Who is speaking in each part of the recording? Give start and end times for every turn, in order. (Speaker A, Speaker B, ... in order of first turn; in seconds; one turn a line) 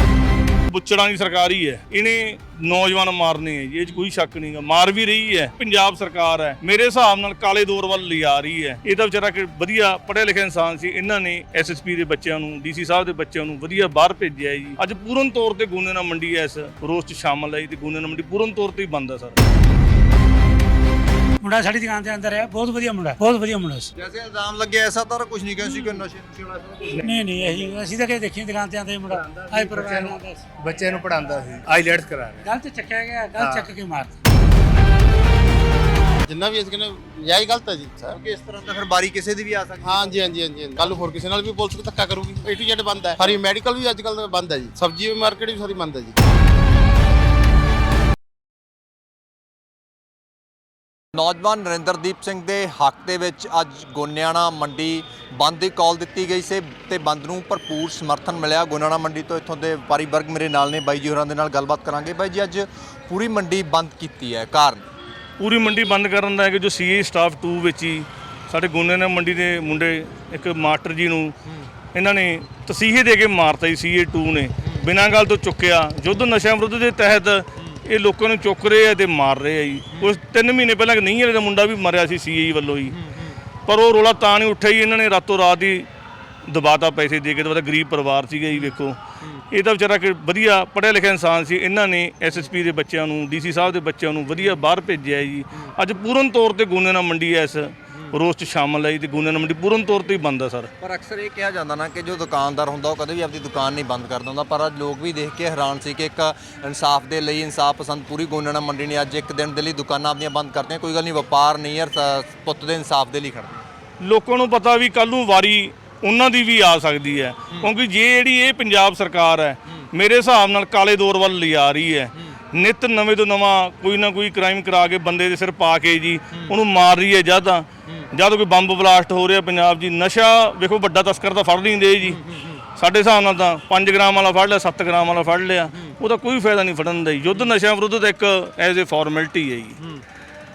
Speaker A: 0.7-19.4
Speaker B: 21.4-23.9
Speaker C: 24.0-27.0
Speaker D: 26.9-27.8
Speaker B: 27.0-30.5
Speaker D: 29.1-32.5
Speaker B: 32.5-34.2
Speaker D: 33.4-33.7
Speaker E: 36.2-38.2
Speaker C: 38.1-40.4
Speaker E: 39.8-46.2
Speaker C: 51.1-64.9
Speaker A: 65.4-71.3
Speaker A: 71.9-83.0
Speaker C: 82.9-83.4
Speaker A: 83.7-85.9
Speaker A: 86.5-89.0
Speaker C: 88.5-89.4
Speaker A: 89.5-100.7
Speaker C: 100.8-113.6
Speaker A: 114.0-132.2
Speaker C: 132.0-132.6
Speaker A: 132.8-139.8